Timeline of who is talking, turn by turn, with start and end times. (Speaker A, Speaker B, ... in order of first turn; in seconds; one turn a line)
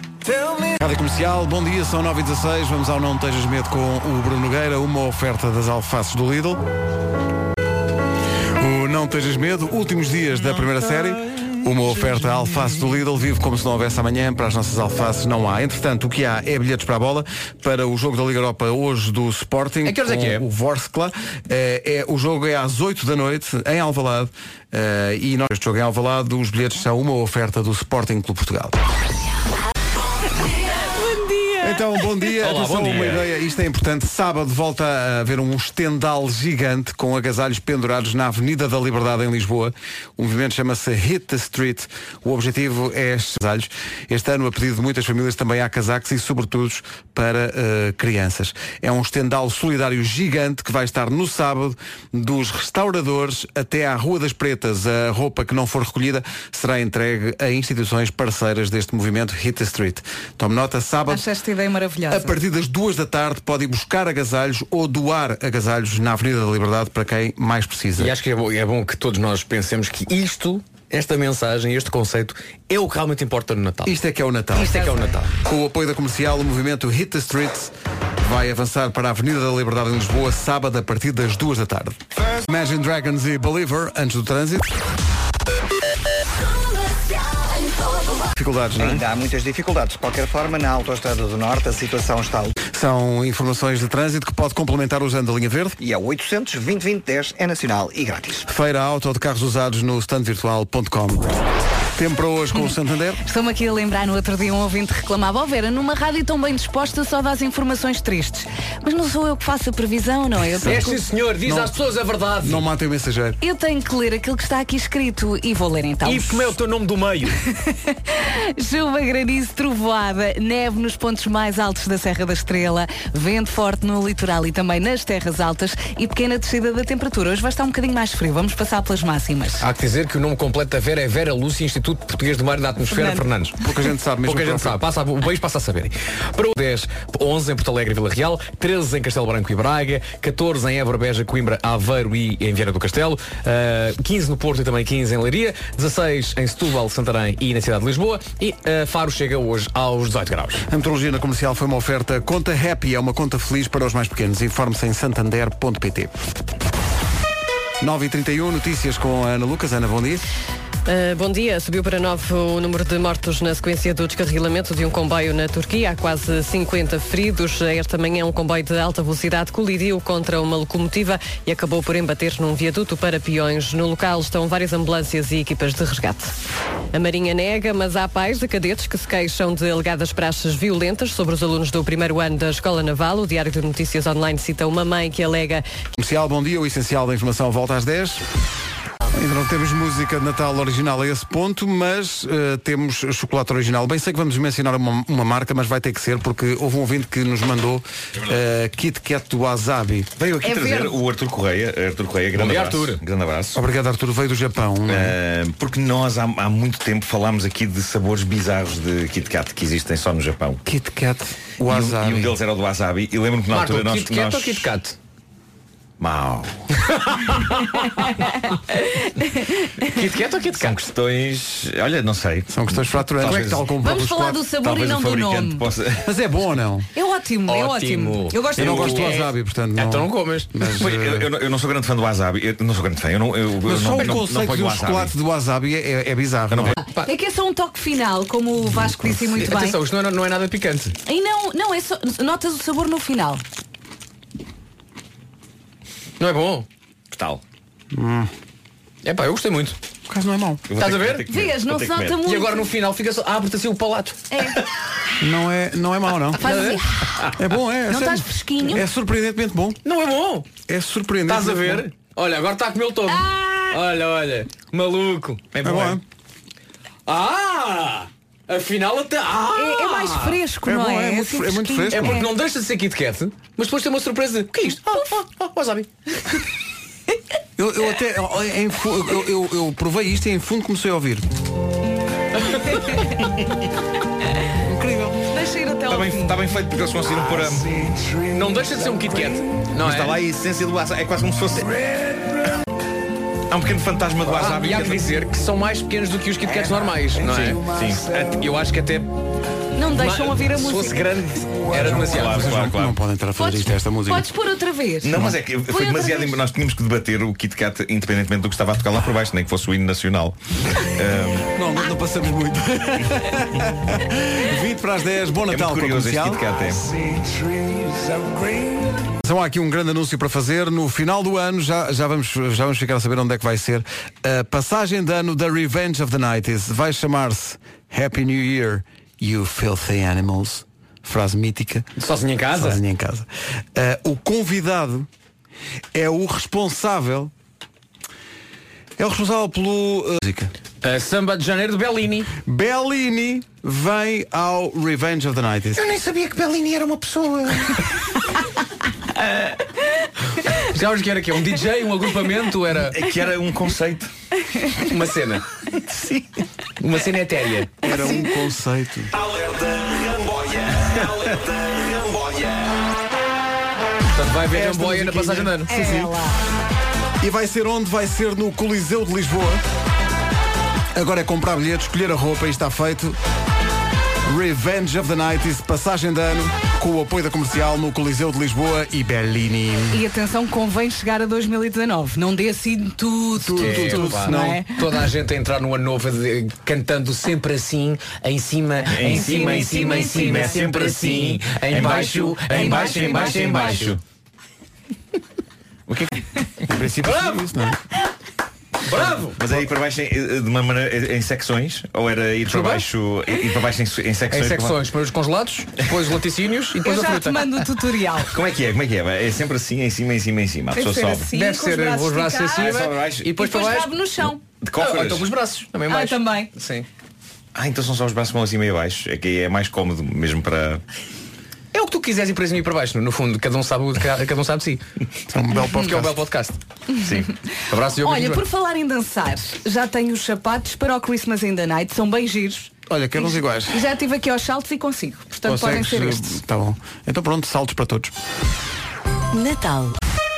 Speaker A: 0.2-6.6
Speaker A: 8.6-28.8
Speaker B: 19.8-20.4
Speaker C: 30.6-31.8
Speaker A: 31.6-61.2
Speaker B: 32.3-33.3
Speaker C: 61.1-62.4
Speaker A: 62.1-68.2
Speaker B: 68.0-73.9
Speaker A: 73.8-84.7
Speaker B: 74.5-75.3
Speaker A: 88.3-89.0
Speaker D: 88.8-92.5
Speaker A: 92.6-95.8
Speaker D: 95.8-98.5
Speaker A: 98.5-101.3
Speaker A: 102.0-103.2
Speaker C: 103.2-111.0
Speaker A: 110.5-111.8
Speaker B: 110.6-112.7
Speaker A: 112.4-113.4
Speaker C: 113.4-116.5
Speaker B: 116.0-117.4
Speaker C: 117.5-129.6
Speaker B: 129.6-133.6
Speaker C: 132.9-133.3
Speaker A: 133.6-134.8
Speaker B: 134.2-150.7
Speaker A: 150.7-156.3
Speaker A: 157.8-160.2
Speaker E: 160.8-176.3
Speaker E: 176.9-185.6
Speaker A: 185.9-188.2
Speaker A: 189.1-200.1
Speaker F: 200.2-203.6
Speaker C: 200.4-201.0
Speaker B: 202.3-203.0
Speaker A: 203.5-205.2
Speaker F: 204.9-210.6
Speaker A: 210.6-212.4
Speaker F: 211.7-214.7
Speaker B: 213.5-214.9
Speaker F: 216.0-216.6
Speaker B: 216.9-217.7
Speaker C: 218.7-219.9
Speaker B: 219.9-220.8
Speaker F: 220.5-223.7
Speaker A: 222.5-224.4
Speaker C: 223.8-225.6
Speaker F: 224.6-226.1
Speaker A: 226.0-226.9
Speaker C: 226.9-229.0
Speaker B: 227.5-230.5
Speaker A: 228.6-231.3
Speaker F: 228.8-229.1
Speaker F: 230.7-235.1
Speaker A: 233.6-236.7
Speaker F: 236.5-236.8
Speaker B: 236.8-237.1
Speaker C: 236.8-239.8
Speaker B: 239.1-240.9
Speaker C: 241.0-243.4
Speaker B: 246.2-246.7
Speaker F: 247.1-247.4
Speaker A: 247.9-248.3
Speaker B: 249.0-249.8
Speaker A: 250.1-250.6
Speaker F: 250.7-252.2
Speaker B: 250.8-251.3
Speaker C: 251.3-252.7
Speaker B: 252.2-254.2
Speaker C: 254.3-254.6
Speaker A: 255.2-256.5
Speaker C: 256.4-257.2
Speaker B: 256.4-257.3
Speaker A: 257.4-259.8
Speaker C: 257.9-258.8
Speaker B: 259.8-260.5
Speaker A: 260.7-261.9
Speaker B: 261.2-265.5
Speaker F: 265.5-266.0
Speaker A: 265.6-266.0
Speaker B: 267.1-270.4
Speaker C: 269.5-272.3
Speaker A: 270.6-272.2
Speaker B: 271.9-275.9
Speaker A: 277.6-281.3
Speaker A: 284.6-285.2
Speaker C: 285.3-286.3
Speaker F: 285.9-287.8
Speaker B: 288.2-290.2
Speaker F: 289.8-292.2
Speaker F: 293.5-295.1
Speaker B: 294.2-299.1
Speaker F: 297.3-298.3
Speaker C: 299.8-301.1
Speaker B: 299.9-302.5
Speaker F: 301.8-303.0
Speaker A: 301.9-304.3
Speaker C: 303.4-305.2
Speaker F: 305.0-311.5
Speaker C: 305.7-306.4
Speaker A: 311.5-316.4
Speaker F: 315.5-316.9
Speaker A: 319.2-331.9
Speaker B: 332.0-332.8
Speaker A: 332.5-335.1
Speaker A: 335.9-337.3
Speaker A: 339.0-340.5
Speaker B: 340.8-342.3
Speaker A: 342.4-345.8
Speaker F: 345.7-347.8
Speaker B: 350.5-353.0
Speaker F: 352.8-354.1
Speaker B: 354.7-355.4
Speaker F: 355.9-356.2
Speaker B: 356.8-357.9
Speaker A: 357.8-359.1
Speaker F: 359.2-362.8
Speaker B: 364.1-365.7
Speaker A: 364.5-366.2
Speaker C: 365.7-366.4
Speaker A: 367.2-369.6
Speaker A: 370.9-373.2
Speaker A: 374.2-380.0
Speaker C: 379.9-384.7
Speaker A: 383.4-384.6
Speaker B: 383.6-393.9
Speaker F: 388.9-394.0
Speaker C: 389.0-390.6
Speaker C: 391.8-393.9
Speaker A: 396.7-397.8
Speaker B: 397.0-397.5
Speaker B: 398.8-399.4
Speaker F: 399.3-404.8
Speaker B: 402.5-402.8
Speaker B: 404.3-407.7
Speaker C: 406.8-408.3
Speaker F: 408.2-411.3
Speaker C: 410.7-414.4
Speaker B: 411.3-416.9
Speaker F: 412.6-413.3
Speaker F: 414.6-415.3
Speaker C: 415.9-416.5
Speaker F: 417.5-420.8
Speaker B: 421.7-424.8
Speaker A: 425.3-426.2
Speaker B: 425.6-428.4
Speaker C: 428.0-436.4
Speaker A: 432.9-433.8
Speaker A: 435.4-438.1
Speaker C: 439.3-439.9